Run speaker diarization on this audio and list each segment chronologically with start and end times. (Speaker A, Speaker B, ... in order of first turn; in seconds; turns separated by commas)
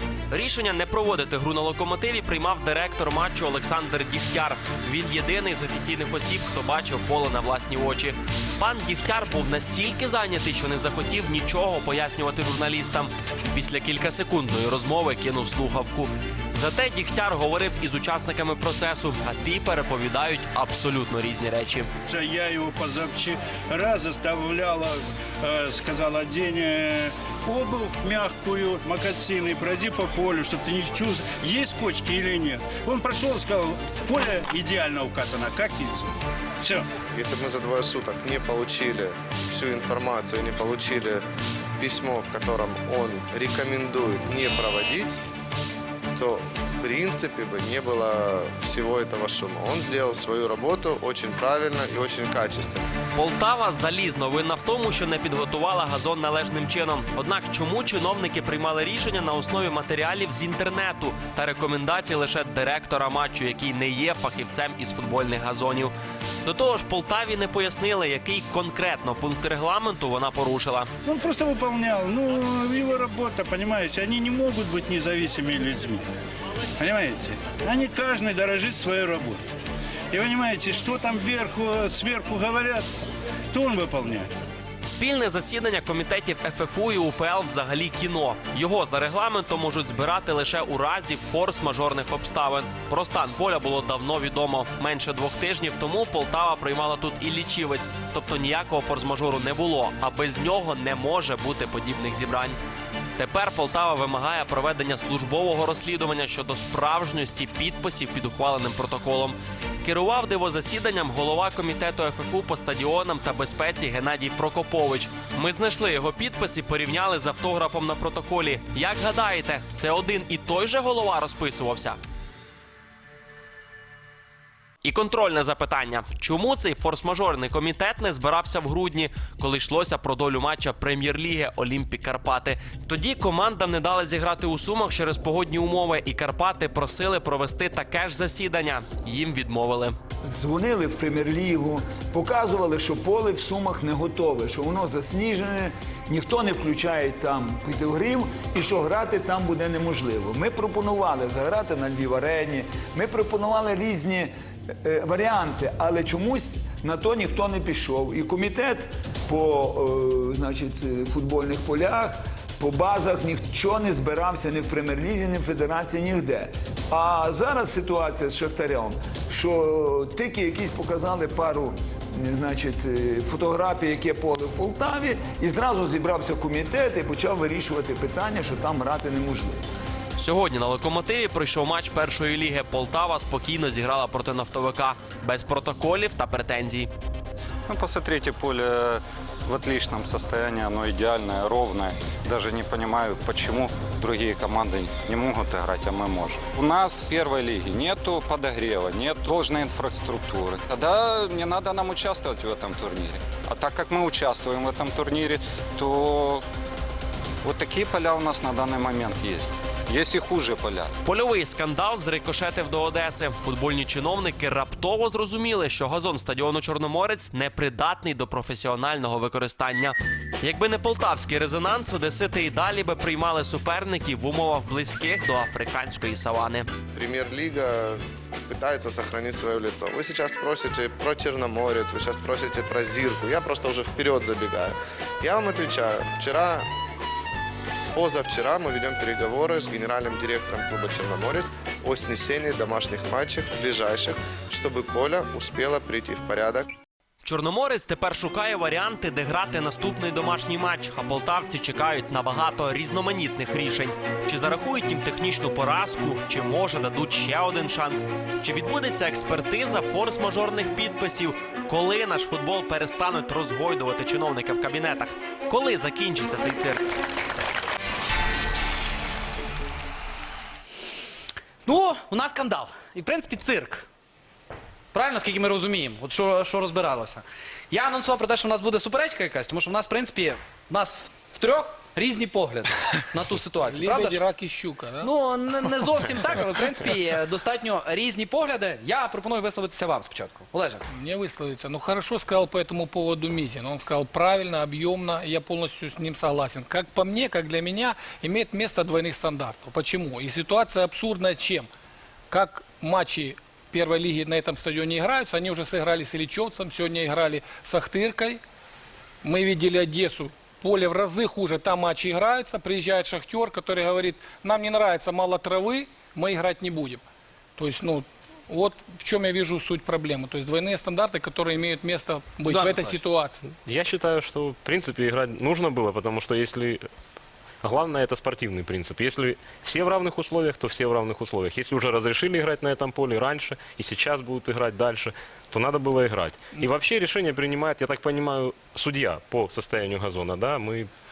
Speaker A: 0.3-21.9, Speaker B: 22.1-36.9, Speaker C: 37.1-41.2, Speaker C: 41.8-45.2, Speaker C: 46.1-52.9, Speaker A: 53.1-70.9, Speaker B: 71.0-76.1, Speaker B: 76.8-79.5, Speaker B: 80.1-82.8, Speaker B: 83.5-84.3, Speaker A: 84.8-102.6, Speaker A: 103.2-122.0, Speaker A: 124.8-140.0, Speaker D: 140.3-179.6, Speaker A: 180.2-186.9, Speaker E: 187.7-206.4, Speaker E: 207.4-211.0, Speaker A: 211.1-226.7, Speaker C: 226.9-236.7, Speaker C: 237.8-246.7, Speaker A: 247.2-266.8, Speaker F: 271.6-273.9, Speaker F: 274.9-284.2, Speaker G: 283.7-285.1, Speaker F: 285.0-290.9, Speaker G: 290.9-301.7, Speaker G: 302.3-308.4, Speaker G: 309.2-317.0, Speaker G: 317.6-323.5, Speaker F: 322.5-323.0, Speaker H: 323.6-326.9, Speaker H: 327.6-340.9